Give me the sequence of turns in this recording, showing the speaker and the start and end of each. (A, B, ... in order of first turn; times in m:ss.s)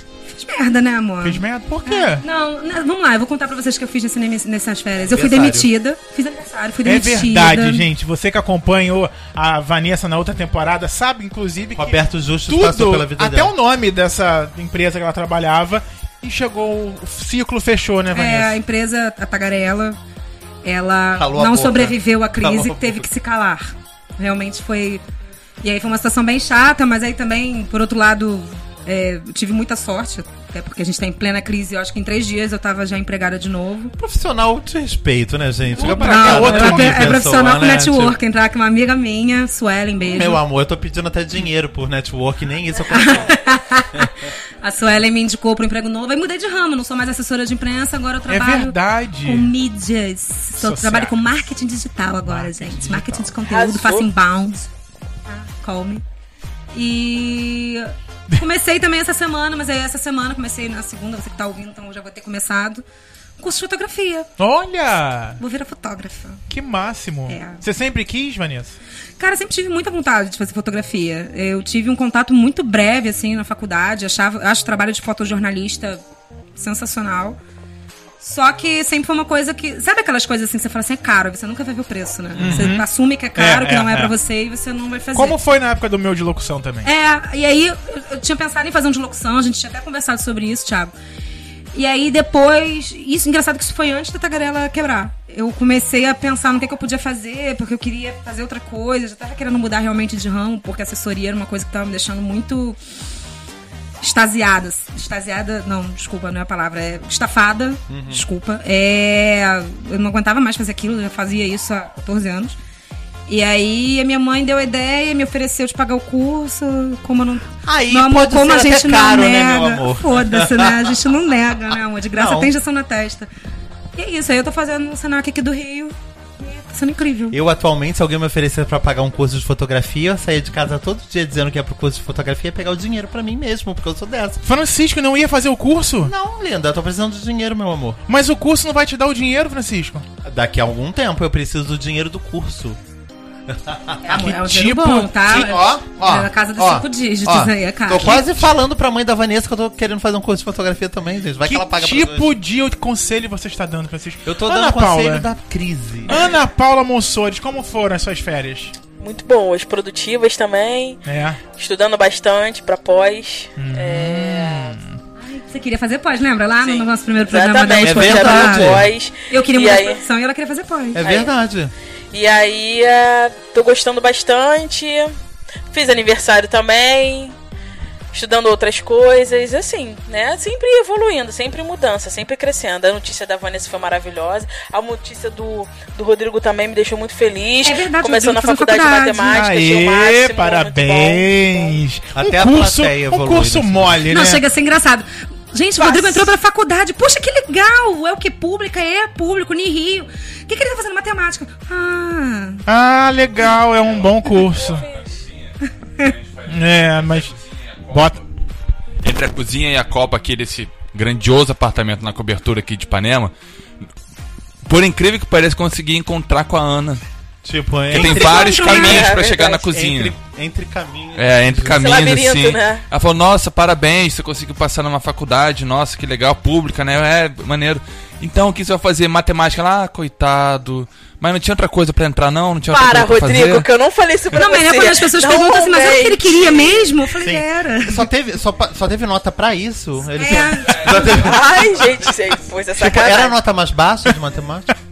0:00.3-0:07.9 A
0:01.2-0:02.2 B
0:05.0-0:05.7 C
0:06.8-0:18.6 B
0:11.8-0:13.5 C
0:18.1-0:20.0 A
0:20.6-0:25.0 A
0:21.2-0:23.1 C
0:25.6-0:34.0 A
0:34.0-0:38.2 C
0:35.8-0:37.3 B
0:35.8-0:40.4 A
0:40.1-0:43.4 C
0:42.9-0:54.7 A
0:48.3-0:49.5 B
0:50.6-0:51.5 B
0:52.3-0:53.4 B
0:53.5-0:54.1 D
0:55.3-0:56.0 A
0:56.7-1:02.8 A
1:03.4-1:04.3 A
1:04.4-1:05.4 B
1:05.4-1:06.4 A
1:06.5-1:08.8 B
1:07.3-1:07.6 A
1:09.2-1:16.0 A
1:16.6-1:17.4 A
1:18.2-1:25.4 A
1:22.4-1:24.1 B
1:22.4-1:22.8 C
1:25.2-1:26.9 B
1:26.8-1:30.9 A
1:31.7-1:42.8 A
1:44.0-1:52.6 A
1:47.9-1:48.2 C
1:53.3-2:03.3 A
1:57.6-2:01.0 C
2:02.1-2:02.5 C
2:04.0-2:07.4 A
2:07.3-2:14.4 C
2:14.4-2:16.1 B
2:16.0-2:18.0 C
2:18.1-2:20.1 B
2:20.2-2:22.8 C
2:23.5-2:24.1 C
2:24.0-2:28.2 A
2:24.1-2:25.2 B
2:25.2-2:32.4 C
2:31.4-2:35.3 B
2:34.2-2:36.2 C
2:36.1-2:38.7 B
2:39.0-2:41.0 D
2:41.1-2:41.4 B
2:41.6-2:44.8 D
2:43.6-2:45.0 B
2:45.2-2:51.0 A
2:46.6-2:50.0 D
2:47.8-2:48.9 C
2:50.9-2:51.7 C
2:51.0-2:51.3 D
2:52.1-2:55.1 D
2:55.7-2:57.4 D
2:58.1-3:11.8 D
3:07.6-3:09.4 A
3:09.3-3:14.4 B
3:12.2-3:14.4 C
3:14.1-3:22.6 A
3:15.8-3:16.3 D
3:22.7-3:24.9 B
3:24.4-3:25.1 D
3:26.0-3:26.5 E
3:26.5-3:27.4 B
3:27.5-3:27.8 E
3:27.9-3:28.2 B
3:29.0-3:33.3 E
3:34.6-3:37.0 E
3:37.4-3:42.0 C
3:37.9-3:40.2 E
3:38.0-3:39.6 D
3:38.6-3:39.0 A
3:41.2-3:53.7 E
3:41.8-3:42.8 D
3:52.7-3:57.0 D
3:54.3-3:58.1 A
3:57.1-4:01.7 C
4:00.2-4:01.3 A
4:00.9-4:03.4 D
4:02.8-4:04.7 C